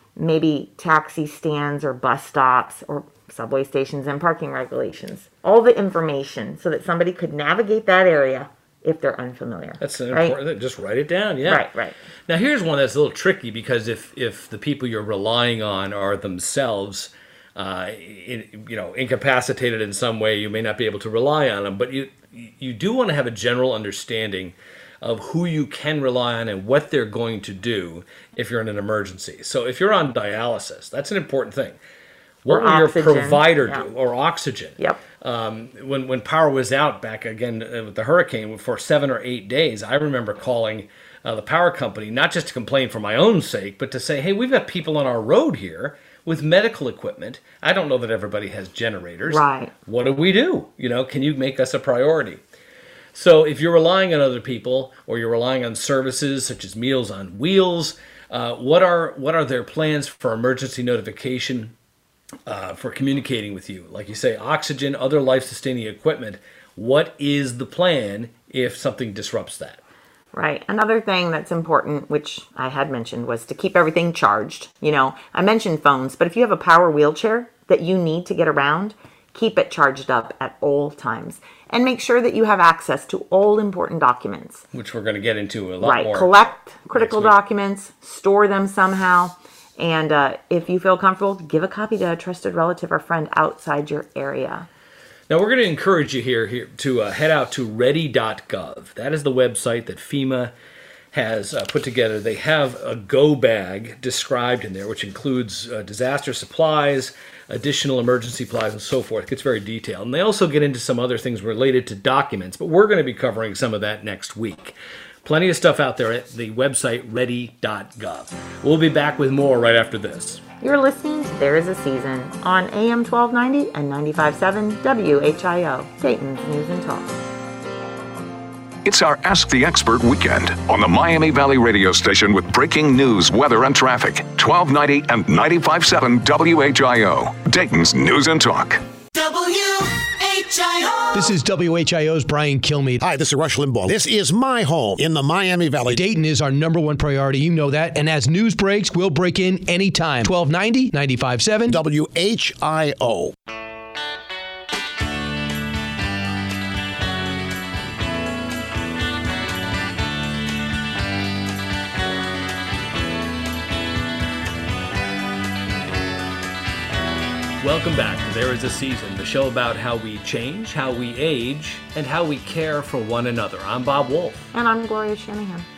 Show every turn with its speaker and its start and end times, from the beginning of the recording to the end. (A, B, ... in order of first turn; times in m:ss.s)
0:00.2-0:10.4 A
0:09.8-0:11.7 B
0:11.5-0:12.0 A
0:12.3-0:31.8 B
0:32.4-0:52.4 B
0:32.5-0:33.9 A
0:49.3-0:49.7 A
0:53.1-1:01.8 B
1:02.5-1:09.8 B
1:10.3-1:24.6 A
1:24.7-1:26.4 B
1:25.8-1:34.7 A
1:26.9-1:27.4 B
1:35.3-1:40.5 B
1:41.1-2:00.4 B
2:00.6-2:07.2 A
2:08.8-2:18.8 C
2:19.1-2:21.2 D
2:21.1-2:23.0 E
2:23.0-2:26.0 F
2:25.9-2:31.8 E
2:31.7-2:33.3 F
2:47.6-2:54.5 B
2:54.5-2:55.7 A